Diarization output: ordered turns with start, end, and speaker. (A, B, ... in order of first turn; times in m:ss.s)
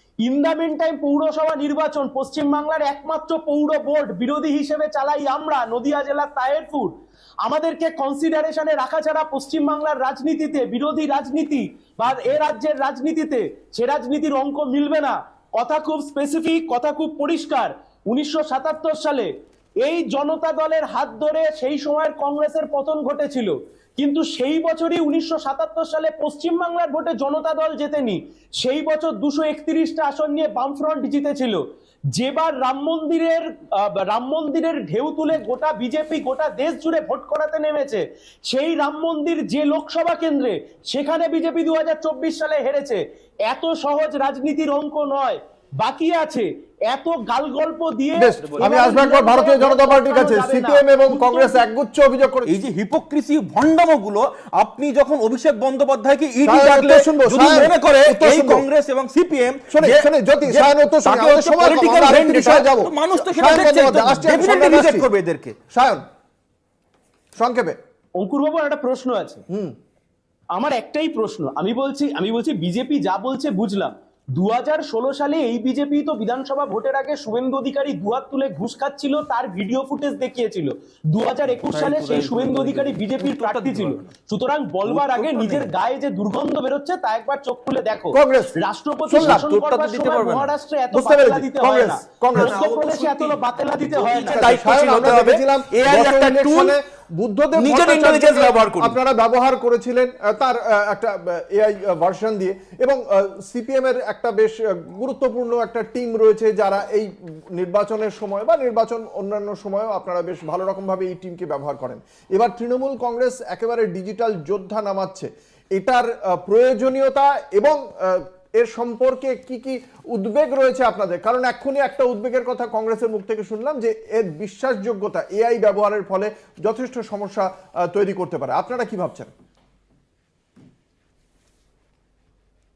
0:00.2-0:51.6 A
0:48.2-0:52.5 B
0:52.4-1:05.6 C
0:56.4-0:58.6 B
0:59.7-1:05.1 B
1:05.7-1:06.0 B
1:07.3-1:07.8 B
1:08.2-1:09.4 A
1:09.5-1:09.8 B
1:10.5-1:34.5 A
1:21.6-1:24.1 C
1:24.8-1:25.7 C
1:28.1-1:28.6 B
1:29.1-1:30.5 C
1:30.9-1:32.6 B
1:32.3-1:36.8 C
1:34.2-2:09.3 B
1:37.6-1:39.0 C